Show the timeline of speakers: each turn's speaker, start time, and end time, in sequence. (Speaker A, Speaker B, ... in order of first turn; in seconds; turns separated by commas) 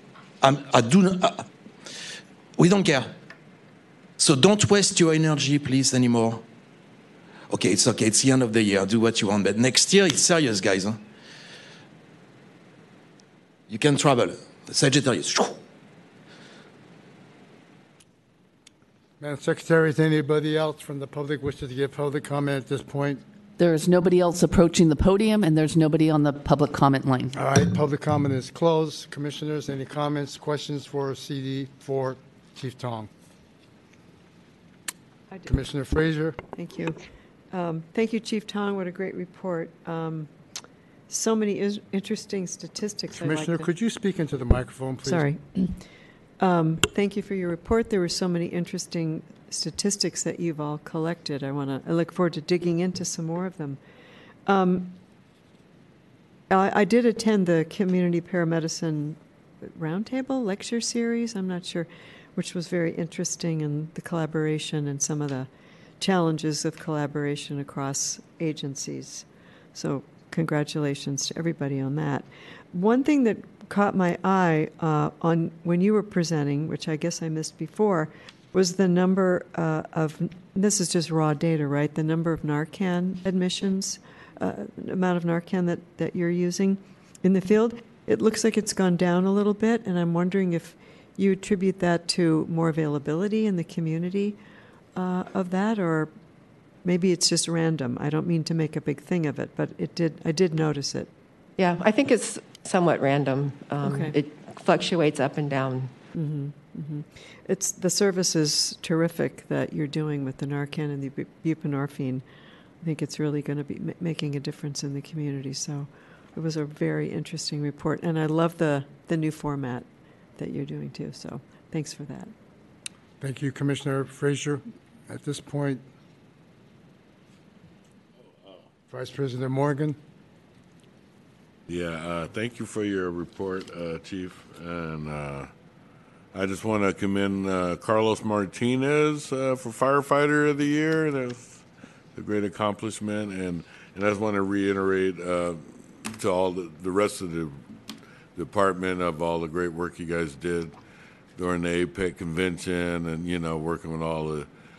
Speaker A: 0.4-1.5, Speaker A: 2.6-3.1, Speaker A: 4.2-6.4, Speaker A: 7.5-11.0, Speaker A: 13.7-15.6, Speaker B: 19.2-23.2, Speaker C: 23.6-27.3, Speaker B: 27.3-33.1, Speaker B: 35.5-36.4, Speaker D: 36.5-37.0, Speaker D: 37.5-40.3, Speaker D: 41.1-43.7, Speaker B: 43.1-45.3, Speaker D: 45.0-45.8, Speaker D: 46.4-53.8, Speaker D: 54.5-55.0, Speaker D: 56.5-65.5, Speaker D: 66.0-94.4, Speaker D: 94.9-96.1, Speaker D: 96.8-101.1, Speaker E: 101.6-105.9, Speaker D: 103.8-104.2, Speaker D: 106.1-112.2, Speaker D: 112.8-122.3, Speaker B: 123.2-125.8, Speaker B: 128.9-130.0, Speaker F: 131.7-135.5, Speaker F: 136.3-141.6, Speaker F: 142.1-147.6, Speaker F: 148.3-150.7, Speaker F: 151.3-154.5